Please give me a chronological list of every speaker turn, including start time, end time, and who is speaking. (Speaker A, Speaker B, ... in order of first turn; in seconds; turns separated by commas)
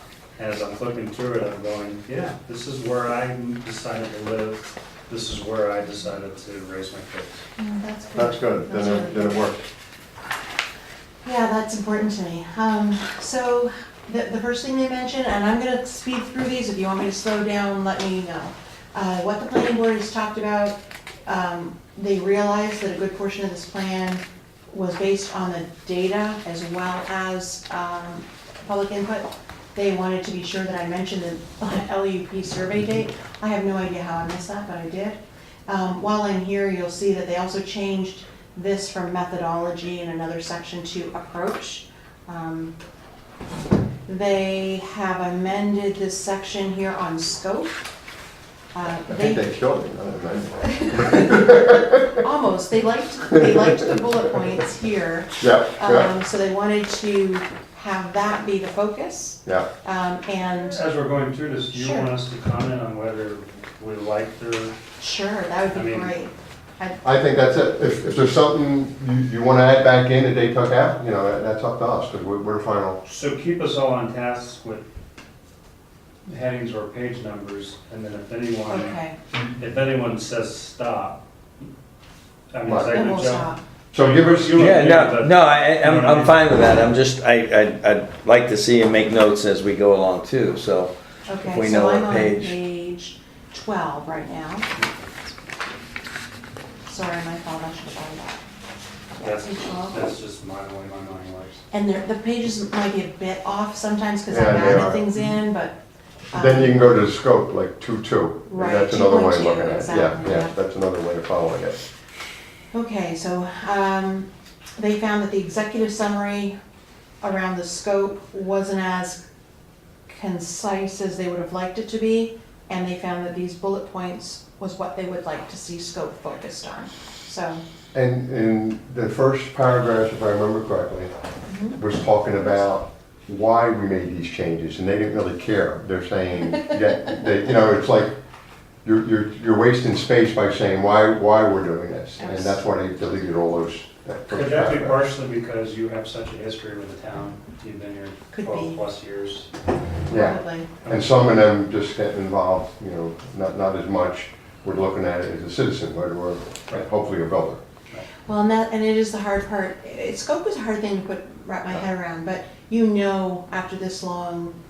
Speaker A: 0.3-7.4, Speaker B: 7.6-9.4, Speaker C: 8.1-9.6, Speaker B: 11.2-42.7, Speaker B: 44.1-47.8, Speaker B: 48.7-49.5, Speaker C: 49.1-52.2, Speaker B: 50.8-60.8, Speaker C: 53.3-54.1, Speaker C: 55.4-56.1, Speaker A: 60.6-64.7, Speaker B: 61.7-62.1, Speaker B: 65.0-67.0, Speaker A: 65.7-66.1, Speaker C: 67.0-73.0, Speaker A: 73.0-74.8, Speaker A: 76.2-79.0, Speaker B: 78.7-79.2, Speaker A: 79.5-81.6, Speaker A: 82.5-86.4, Speaker C: 82.7-83.0, Speaker B: 82.9-83.6, Speaker C: 83.9-84.9, Speaker D: 84.5-92.6, Speaker B: 91.3-94.7, Speaker B: 96.8-98.4, Speaker B: 99.2-100.0, Speaker A: 99.2-101.6, Speaker B: 101.7-105.8, Speaker C: 104.3-105.1, Speaker B: 106.3-106.8, Speaker C: 106.3-111.8, Speaker B: 108.5-110.5, Speaker B: 112.7-114.3, Speaker B: 114.8-116.5, Speaker B: 117.2-119.2, Speaker B: 120.1-127.6, Speaker C: 127.9-131.1, Speaker B: 131.5-131.8, Speaker C: 131.8-138.1, Speaker C: 138.8-145.0, Speaker B: 142.2-142.6, Speaker A: 144.3-149.5, Speaker B: 148.3-148.8, Speaker C: 150.1-157.6, Speaker B: 150.1-150.7, Speaker A: 150.8-151.1, Speaker B: 158.2-164.5